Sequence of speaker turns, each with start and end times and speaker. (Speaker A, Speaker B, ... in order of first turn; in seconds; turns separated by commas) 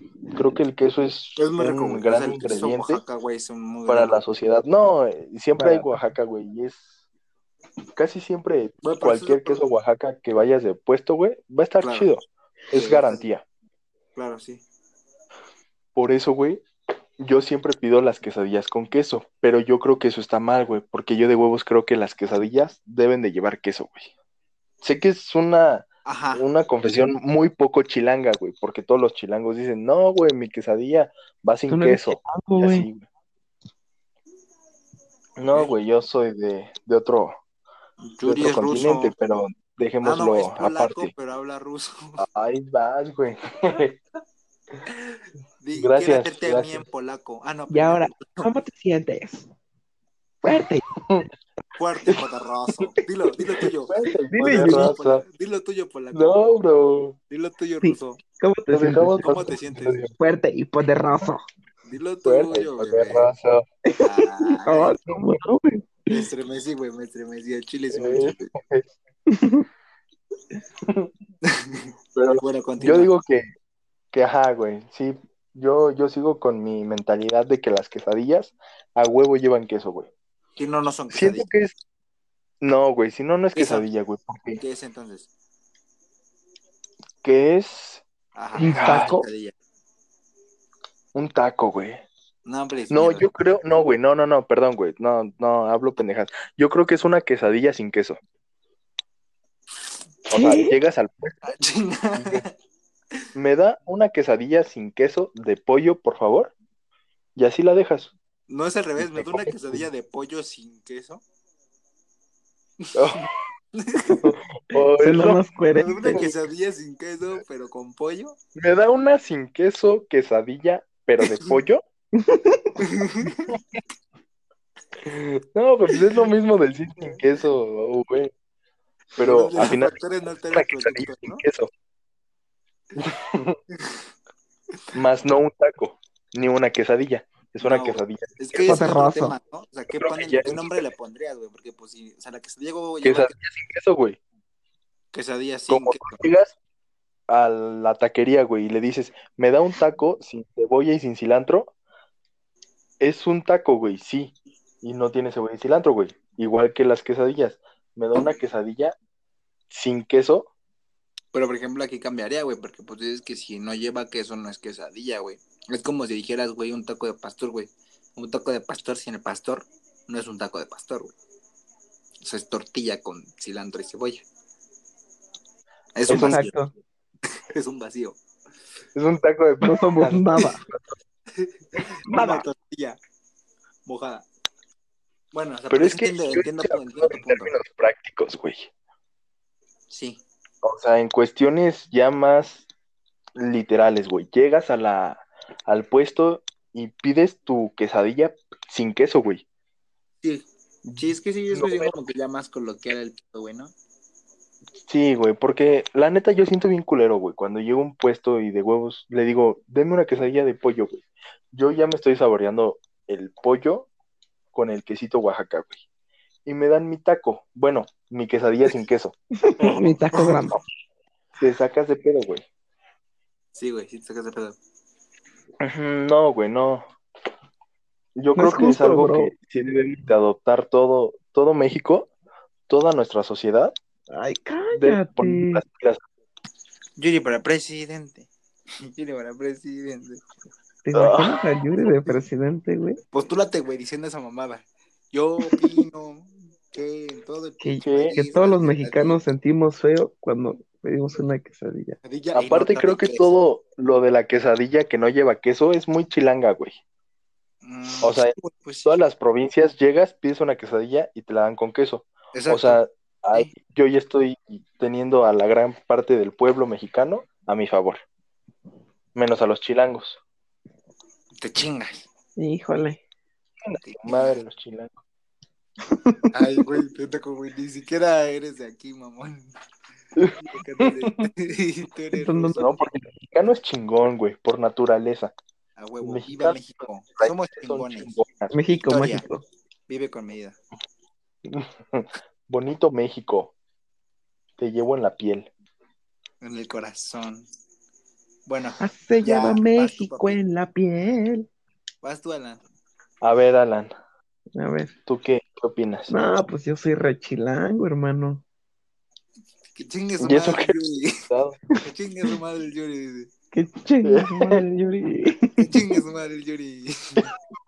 Speaker A: 0.3-3.0, Speaker B: 1.4-4.2, Speaker A: 3.9-6.9, Speaker C: 5.6-6.0, Speaker A: 8.0-13.4, Speaker B: 8.8-9.7, Speaker B: 11.8-12.1, Speaker B: 12.7-13.2, Speaker B: 14.2-14.6, Speaker A: 15.9-16.6, Speaker A: 17.2-24.1, Speaker A: 24.8-33.0, Speaker B: 26.1-26.4, Speaker C: 31.7-32.9, Speaker A: 35.4-37.4, Speaker B: 38.0-39.1, Speaker A: 38.2-41.1, Speaker B: 40.0-42.2, Speaker A: 42.2-44.0, Speaker B: 44.9-48.5, Speaker A: 45.8-46.8, Speaker C: 47.7-49.5, Speaker C: 50.4-50.9, Speaker A: 50.5-51.3, Speaker B: 51.8-56.5, Speaker A: 53.9-55.2, Speaker C: 54.3-54.9, Speaker A: 56.1-57.2, Speaker B: 57.3-58.2, Speaker C: 57.8-59.4, Speaker A: 58.7-60.1, Speaker B: 59.2-60.1, Speaker C: 60.2-61.4, Speaker B: 61.9-63.3, Speaker A: 62.2-63.6, Speaker C: 63.9-66.3, Speaker B: 64.0-65.0, Speaker B: 66.1-68.5, Speaker A: 67.9-68.8, Speaker C: 69.3-69.7, Speaker A: 70.9-71.1, Speaker B: 71.5-73.1, Speaker A: 72.2-73.5, Speaker A: 74.1-80.1, Speaker B: 80.6-81.5, Speaker A: 81.1-81.8, Speaker A: 82.6-84.6, Speaker B: 83.5-83.9, Speaker B: 84.6-85.3, Speaker A: 87.2-88.0, Speaker B: 88.3-89.5, Speaker C: 88.6-89.2, Speaker A: 88.6-89.2, Speaker A: 91.1-92.0, Speaker B: 92.5-93.3, Speaker A: 92.9-98.2, Speaker C: 100.3-100.8, Speaker A: 100.3-101.4, Speaker B: 101.4-102.5, Speaker A: 102.2-102.4, Speaker A: 103.3-106.5, Speaker A: 107.4-108.1, Speaker B: 108.5-111.2, Speaker A: 109.0-109.9, Speaker B: 112.8-114.2, Speaker A: 113.0-113.3, Speaker A: 114.2-115.4, Speaker C: 115.0-116.3, Speaker B: 115.7-118.4, Speaker A: 116.0-116.3, Speaker A: 118.5-121.8, Speaker C: 122.2-122.7, Speaker B: 122.8-123.6, Speaker A: 125.0-128.3, Speaker B: 129.2-131.4, Speaker A: 129.2-129.9, Speaker A: 130.5-131.7, Speaker A: 133.0-133.6, Speaker A: 134.9-138.9, Speaker B: 137.6-143.3, Speaker C: 138.7-139.3, Speaker A: 139.9-140.8, Speaker A: 143.0-144.2, Speaker B: 145.1-146.2, Speaker A: 145.7-146.6, Speaker A: 147.3-151.7, Speaker A: 153.0-158.9, Speaker A: 159.7-160.5, Speaker B: 161.3-171.2, Speaker B: 172.2-174.2, Speaker B: 175.9-176.5, Speaker A: 176.1-176.4, Speaker C: 176.1-176.7, Speaker B: 177.4-178.2, Speaker A: 178.9-180.6, Speaker C: 179.6-180.7, Speaker B: 181.4-183.0, Speaker C: 182.1-182.4, Speaker B: 183.9-184.3, Speaker B: 185.3-187.6, Speaker A: 185.7-188.7, Speaker B: 189.9-190.2, Speaker A: 190.6-192.7, Speaker A: 193.3-199.4, Speaker B: 200.2-203.7, Speaker A: 200.9-201.9, Speaker A: 204.9-213.9, Speaker A: 214.5-215.8, Speaker A: 216.5-219.2, Speaker C: 219.5-220.6, Speaker B: 219.8-220.4, Speaker A: 221.4-222.4, Speaker B: 223.6-224.6, Speaker A: 225.6-226.9, Speaker A: 228.2-232.1, Speaker C: 228.4-229.3, Speaker A: 232.7-233.7, Speaker C: 234.1-235.6, Speaker A: 234.7-236.0, Speaker B: 237.0-238.3, Speaker B: 238.9-240.2, Speaker C: 240.8-243.0, Speaker A: 240.9-241.4, Speaker B: 243.1-249.2, Speaker C: 247.6-252.0, Speaker A: 247.8-248.2, Speaker B: 252.0-253.4, Speaker A: 252.3-256.8, Speaker B: 257.6-259.0, Speaker A: 258.0-268.0, Speaker B: 262.3-262.8, Speaker A: 269.1-270.2, Speaker B: 271.4-272.1, Speaker C: 272.4-273.0, Speaker A: 273.7-274.9, Speaker B: 273.8-274.4, Speaker B: 276.3-279.5, Speaker A: 280.2-280.9, Speaker B: 280.4-282.8, Speaker C: 282.1-282.9, Speaker A: 282.6-285.3, Speaker B: 285.8-288.1, Speaker A: 286.0-286.6, Speaker A: 287.2-288.6, Speaker C: 288.5-289.4, Speaker B: 288.7-289.2, Speaker B: 289.9-290.6, Speaker A: 291.4-293.5, Speaker A: 294.6-295.5, Speaker B: 296.4-297.5, Speaker B: 298.5-300.4, Speaker C: 298.8-301.5, Speaker B: 302.0-302.6, Speaker A: 303.2-303.9, Speaker C: 304.6-304.9, Speaker A: 305.1-306.1, Speaker C: 306.1-308.4, Speaker B: 309.8-311.2, Speaker A: 310.2-310.8, Speaker A: 311.3-311.6, Speaker B: 311.8-313.3, Speaker C: 313.5-315.7, Speaker A: 314.1-314.6, Speaker B: 315.6-317.3